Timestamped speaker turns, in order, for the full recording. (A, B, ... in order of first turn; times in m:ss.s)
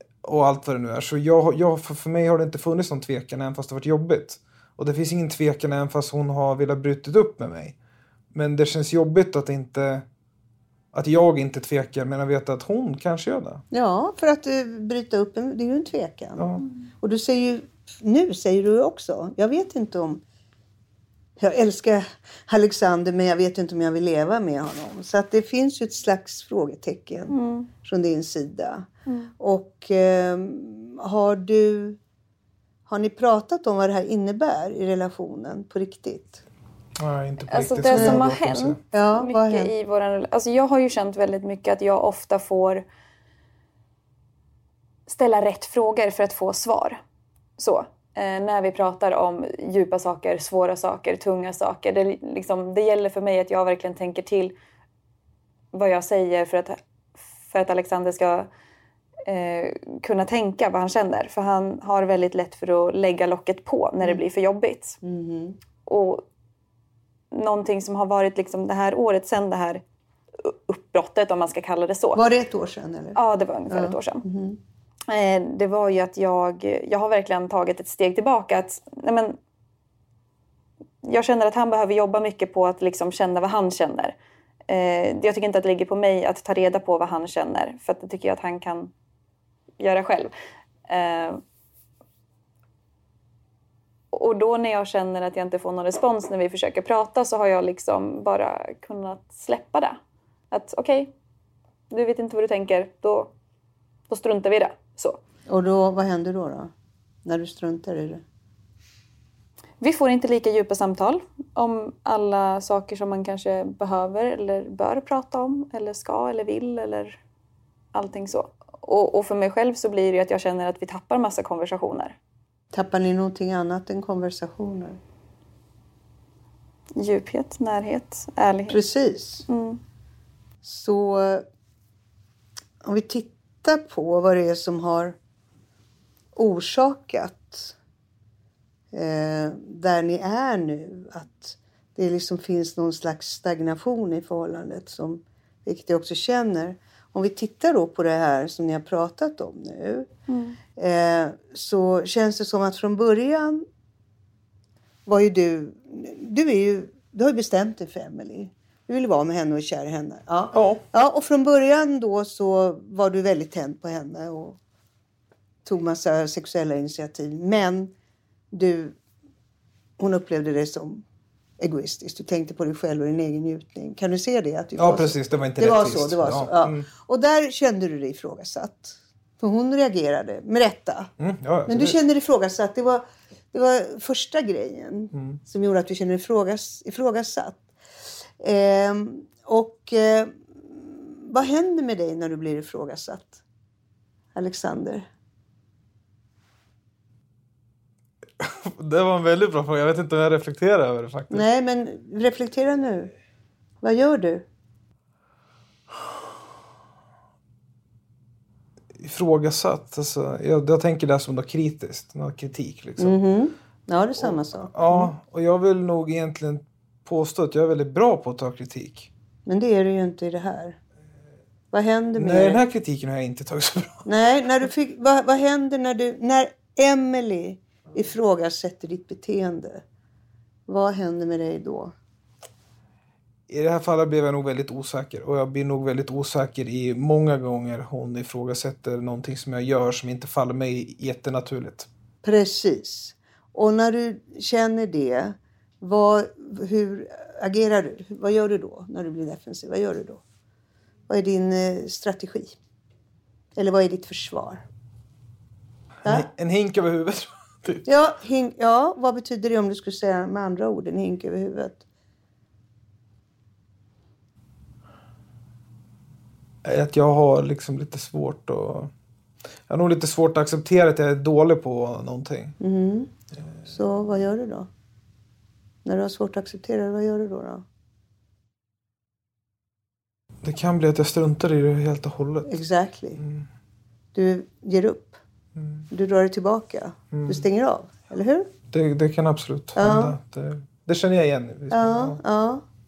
0:00.2-0:07.8 A
0:08.3-0:10.0 A
0:10.9-0:13.6 A
0:13.7-0:16.5 B
0:16.4-0:16.6 A
0:17.0-0:20.2 B
0:21.4-0:28.9 B
0:27.3-0:27.7 C
0:29.4-0:32.0 B
0:32.9-0:36.4 B
0:37.0-0:38.8 A
0:37.5-0:42.8 C
0:37.9-0:38.2 B
0:38.9-0:39.7 B
0:45.1-0:47.0 C
0:47.6-0:54.5 C
0:55.7-0:56.8 C
0:57.4-0:58.5 C
0:59.2-1:05.0 C
1:05.0-1:05.6 B
1:05.8-1:06.2 C
1:07.3-1:09.8 C
1:10.4-1:12.2 C
1:12.1-1:14.6 B
1:13.1-1:14.2 C
1:15.1-1:19.4 C
1:21.0-1:24.2 C
1:24.7-1:28.9 C
1:29.8-1:30.3 C
1:30.9-1:31.4 C
1:34.1-1:40.0 C
1:40.5-1:41.1 C
1:41.9-1:43.3 C
1:44.1-1:45.2 C
1:45.5-1:46.7 B
1:47.2-1:48.2 B
1:49.8-1:57.2 C
1:57.9-2:02.2 C
2:02.7-2:05.0 B
2:07.0-2:08.8 C
2:08.7-2:09.4 B
2:09.5-2:09.8 C
2:10.6-2:11.4 B
2:12.8-2:15.2 B
2:16.3-2:17.7 B
2:18.9-2:30.1 B
2:30.3-2:30.6 C
2:30.7-2:33.6 B
2:35.0-2:44.6 B
2:40.5-2:40.8 A
2:45.6-2:47.9 B
2:48.5-2:49.0 B
2:50.0-2:51.0 B
2:51.6-3:01.1 B
2:54.8-2:56.8 A
3:01.2-3:02.0 A
3:01.7-3:07.6 B
3:05.1-3:05.4 A
3:08.4-3:13.4 B
3:14.3-3:15.1 B
3:18.4-3:21.4 A
3:21.3-3:23.1 B
3:23.8-3:24.4 B
3:29.0-3:33.2 A
3:33.0-3:35.1 B
3:34.2-3:39.1 A
3:39.4-3:40.8 B
3:41.7-3:42.6 B
3:42.2-3:44.0 A
3:44.0-3:49.8 B
3:50.7-3:51.9 B
3:53.5-4:01.9 A
4:02.2-4:10.2 B
4:11.1-4:12.6 B
4:13.5-4:14.6 B
4:16.0-4:17.8 A
4:17.8-4:21.8 B
4:26.6-4:28.9 A
4:29.7-4:32.6 A
4:32.6-4:33.1 B
4:33.6-4:34.7 B
4:35.8-4:37.6 B
4:40.4-4:42.6 A
4:42.4-4:43.2 B
4:43.2-4:43.4 A
4:44.1-4:45.2 B
4:45.6-4:45.8 A
4:45.9-4:48.5 B
4:47.1-4:47.4 A
4:48.7-4:52.2 A
4:49.8-4:50.2 B
4:51.7-4:52.6 B